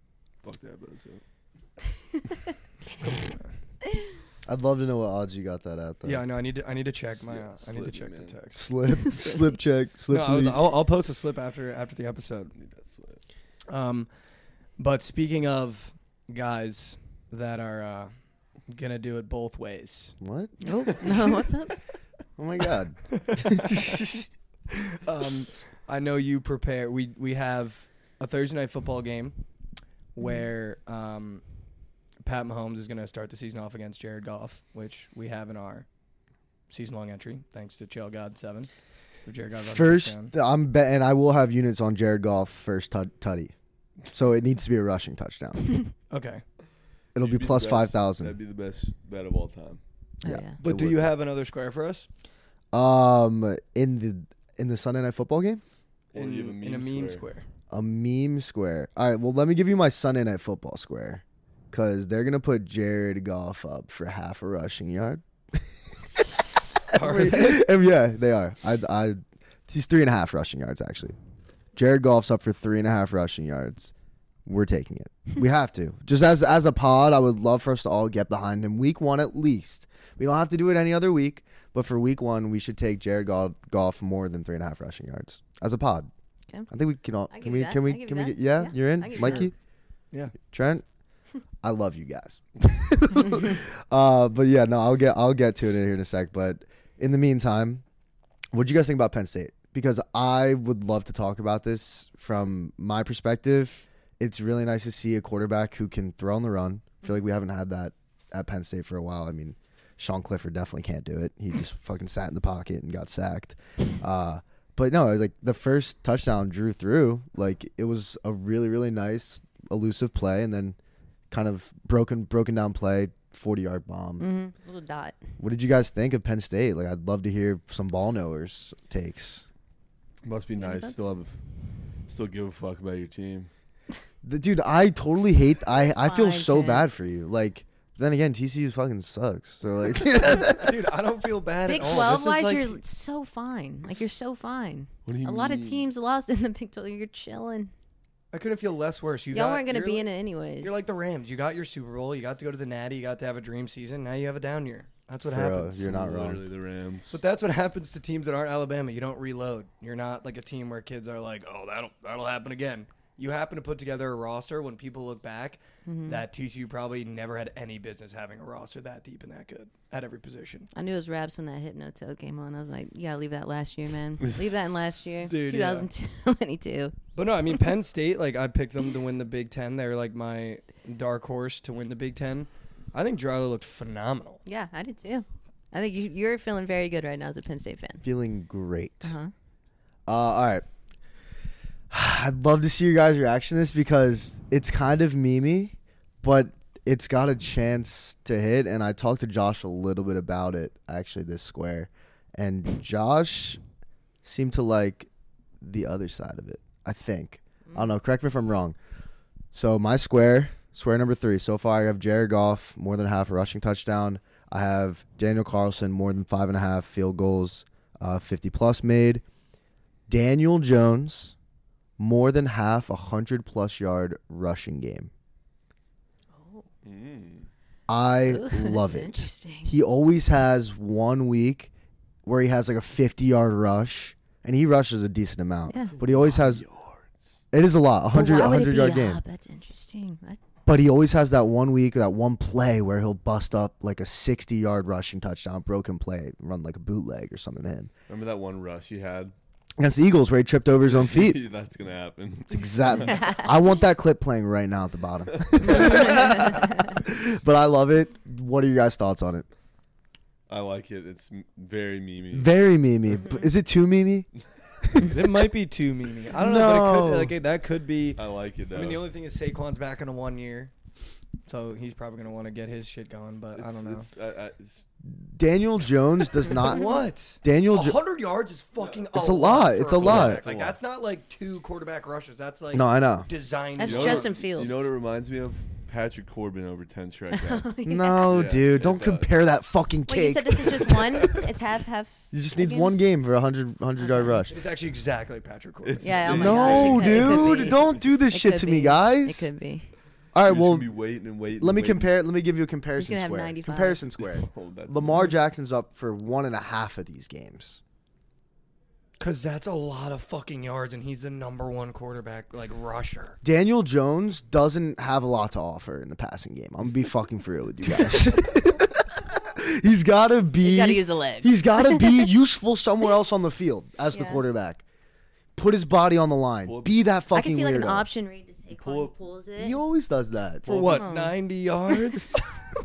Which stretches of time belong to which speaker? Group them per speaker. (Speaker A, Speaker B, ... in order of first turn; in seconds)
Speaker A: 0.4-1.2, 7.1-8.4, 12.5-13.2, 47.2-49.8, 56.1-57.2, 130.2-131.3, 132.1-133.5, 145.1-145.9, 155.8-157.2, 226.8-227.5, 235.9-237.3, 248.1-249.3, 250.8-253.4, 255.3-256.5, 260.5-262.5, 268.1-269.0, 273.5-274.9, 280.0-280.8, 283.8-289.3, 295.8-297.6, 300.4-302.1, 304.2-305.3, 326.6-327.1, 328.7-329.1, 330.6-331.1
Speaker B: 3.0-3.5, 6.0-8.7, 10.1-12.5, 13.7-14.1, 14.8-18.1, 18.7-20.1, 23.1-24.0, 24.7-29.4, 30.1-31.4, 32.2-35.9, 36.7-38.7, 39.2-40.3, 46.1-46.4, 50.6-52.1, 56.1-57.5, 66.9-67.6, 89.2-89.5, 140.4-142.8, 148.3-150.1, 150.6-155.8, 157.1-170.7, 175.2-175.9, 177.1-184.4, 265.1-270.7, 271.4-274.1, 276.5-284.7, 294.5-296.9, 309.2-313.4, 330.6-332.4
Speaker C: 4.5-6.2, 8.5-10.7, 20.2-20.5, 22.4-24.1, 39.5-43.5, 44.1-45.8, 47.1-48.4, 50.2-51.1, 52.7-55.6, 57.7-71.2, 71.7-73.9, 74.5-86.1, 86.7-89.5, 90.5-90.8, 91.6-97.8, 98.5-120.8, 121.3-124.3, 125.4-129.5, 134.2-140.7, 155.2-156.4, 188.0-189.1, 190.1-190.6, 191.9-203.6, 204.2-205.1, 205.6-208.8, 209.5-219.2, 220.1-221.3, 222.0-225.1, 227.9-231.7, 232.2-236.6, 237.5-239.2, 240.7-247.9, 249.8-251.4, 252.5-259.5, 262.3-264.3, 264.8-265.2, 266.3-267.3, 275.0-276.9, 277.4-278.0, 279.1-280.4, 282.7-283.3, 287.8-291.3, 292.3-294.5, 296.4-299.5, 300.3-300.9, 301.6-307.8, 313.4-324.8, 325.6-328.1, 329.6-330.7
Speaker D: 9.0-9.4, 20.6-21.8, 50.2-50.6, 87.3-89.5, 124.2-125.2, 130.6-131.1, 136.0-136.9, 141.7-147.7, 149.3-150.7, 165.8-166.2, 170.7-176.9, 184.4-188.0, 189.0-189.3, 226.3-226.7, 228.3-229.7, 235.7-235.9, 238.1-240.4, 253.0-253.5, 255.6-256.9, 263.1-263.5, 283.8-284.9, 287.3-288.3, 290.1-292.9, 294.0-294.5, 296.0-299.9, 303.0-304.0, 320.6-322.1, 324.1-324.4, 327.3-329.8, 331.0-331.3